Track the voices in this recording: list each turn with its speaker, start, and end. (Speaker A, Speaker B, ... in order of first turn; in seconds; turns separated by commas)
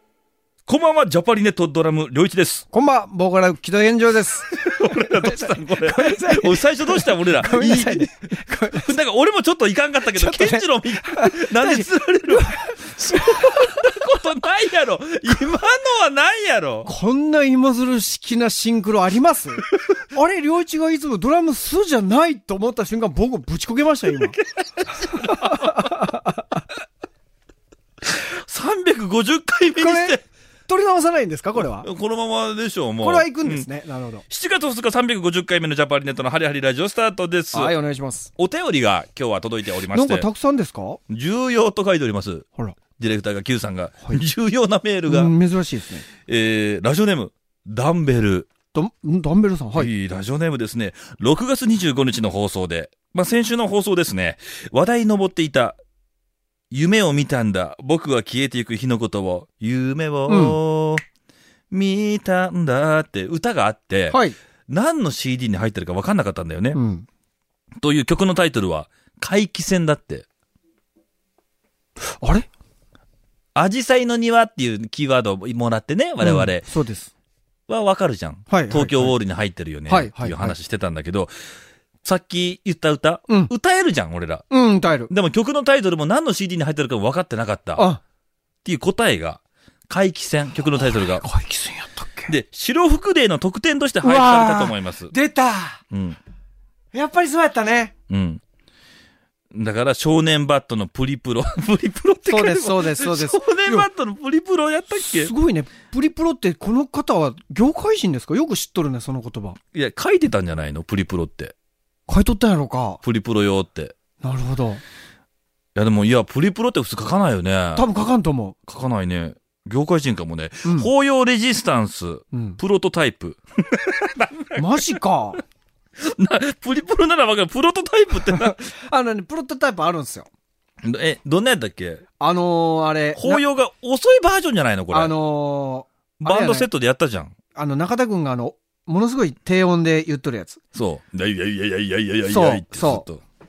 Speaker A: 0.7-2.6, Speaker B: 2.7-8.9, Speaker A: 4.5-16.9, Speaker B: 10.1-14.1, Speaker B: 16.9-24.4, Speaker A: 24.8-26.1, Speaker B: 25.1-26.4, Speaker A: 28.2-30.2, Speaker B: 29.8-31.9, Speaker A: 31.8-33.7, Speaker B: 33.0-34.2, Speaker A: 34.3-37.7, Speaker B: 37.5-38.3, Speaker A: 38.4-40.3, Speaker B: 39.9-41.0, Speaker A: 41.1-42.5, Speaker A: 43.0-45.3, Speaker B: 45.0-46.0, Speaker A: 46.2-48.5, Speaker B: 48.7-49.9, Speaker A: 49.8-55.8, Speaker A: 56.7-61.0, Speaker B: 60.3-60.6, Speaker A: 61.7-64.2, Speaker B: 64.1-64.3, Speaker A: 64.7-66.8, Speaker B: 66.7-67.0, Speaker A: 67.8-70.2, Speaker B: 72.2-72.5, Speaker A: 73.5-76.7, Speaker B: 76.2-77.1, Speaker A: 77.7-81.3, Speaker B: 78.5-79.1, Speaker B: 79.9-80.5, Speaker A: 82.0-84.4, Speaker B: 84.5-85.1, Speaker A: 85.1-87.8, Speaker A: 88.6-91.2, Speaker B: 90.9-92.3, Speaker A: 92.3-95.1, Speaker B: 94.0-95.8, Speaker A: 95.9-96.2, Speaker B: 96.9-97.9, Speaker A: 98.1-98.4, Speaker A: 99.5-105.3, Speaker B: 102.3-103.9, Speaker B: 104.9-109.6, Speaker A: 109.7-111.5, Speaker B: 112.1-113.0, Speaker A: 113.0-113.9, Speaker B: 114.2-114.8, Speaker A: 115.7-117.8, Speaker B: 117.8-118.5, Speaker A: 118.7-125.0, Speaker B: 122.3-122.6, Speaker B: 124.5-125.4, Speaker A: 126.0-128.7, Speaker B: 128.3-130.3, Speaker A: 130.8-132.0, Speaker B: 132.2-133.4, Speaker A: 133.2-135.1, Speaker B: 134.9-136.7, Speaker A: 136.2-137.3, Speaker B: 137.5-140.6, Speaker A: 140.7-143.2, Speaker B: 142.3-143.0